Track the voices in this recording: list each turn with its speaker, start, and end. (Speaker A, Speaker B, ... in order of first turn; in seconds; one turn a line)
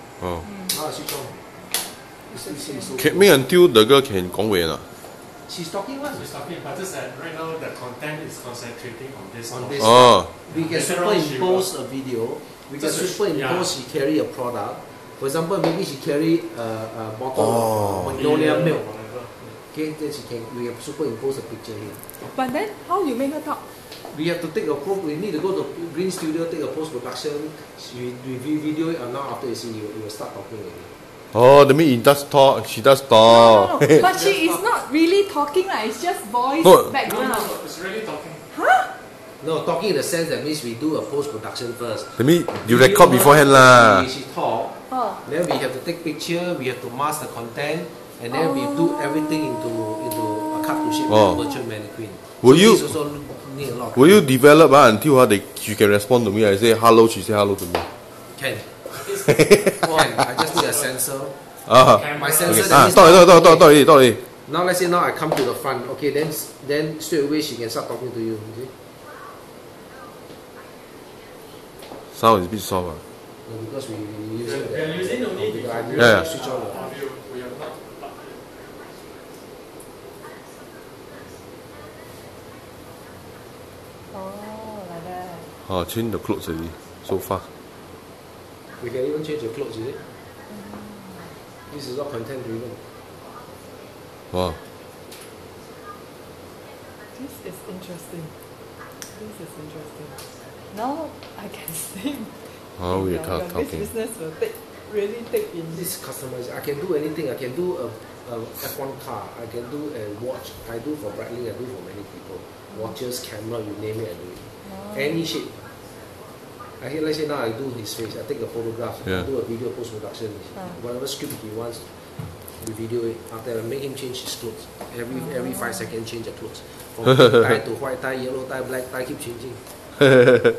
Speaker A: 0.4-0.7
Speaker B: 0.7-1.4
Speaker A: 2.3-3.0
Speaker B: 2.3-3.4
Speaker C: 3.0-4.9
Speaker B: 5.5-6.3
Speaker D: 6.1-11.7
Speaker B: 9.5-18.9
Speaker C: 9.8-10.2
Speaker D: 12.7-13.7
Speaker D: 18.1-19.6
Speaker B: 19.5-22.0
Speaker A: 22.2-23.6
Speaker B: 24.0-30.9
Speaker C: 31.3-34.1
Speaker A: 33.2-37.5
Speaker B: 34.0-34.6
Speaker C: 36.6-36.9
Speaker D: 37.0-38.4
Speaker A: 38.5-38.9
Speaker B: 39.4-54.2
Speaker C: 42.2-44.1
Speaker A: 44.9-45.2
Speaker A: 48.3-49.6
Speaker A: 50.7-51.5
Speaker C: 51.1-51.4
Speaker C: 52.4-52.8
Speaker C: 53.9-57.9
Speaker B: 58.3-58.7
Speaker D: 58.9-60.9
Speaker C: 59.5-59.9
Speaker B: 59.8-61.4
Speaker C: 61.7-64.2
Speaker D: 61.8-63.2
Speaker B: 62.1-63.7
Speaker B: 64.4-68.7
Speaker C: 72.1-73.0
Speaker B: 73.5-76.8
Speaker D: 74.4-78.5
Speaker C: 76.0-76.3
Speaker A: 76.7-77.0
Speaker A: 84.1-85.5
Speaker C: 85.7-87.5
Speaker B: 88.8-90.0
Speaker A: 90.5-91.3
Speaker B: 91.7-92.8
Speaker C: 94.3-94.6
Speaker A: 97.1-98.3
Speaker A: 99.1-105.9
Speaker C: 102.8-103.9
Speaker B: 105.7-115.6
Speaker A: 114.7-115.2
Speaker B: 116.8-129.6
Speaker A: 125.1-125.9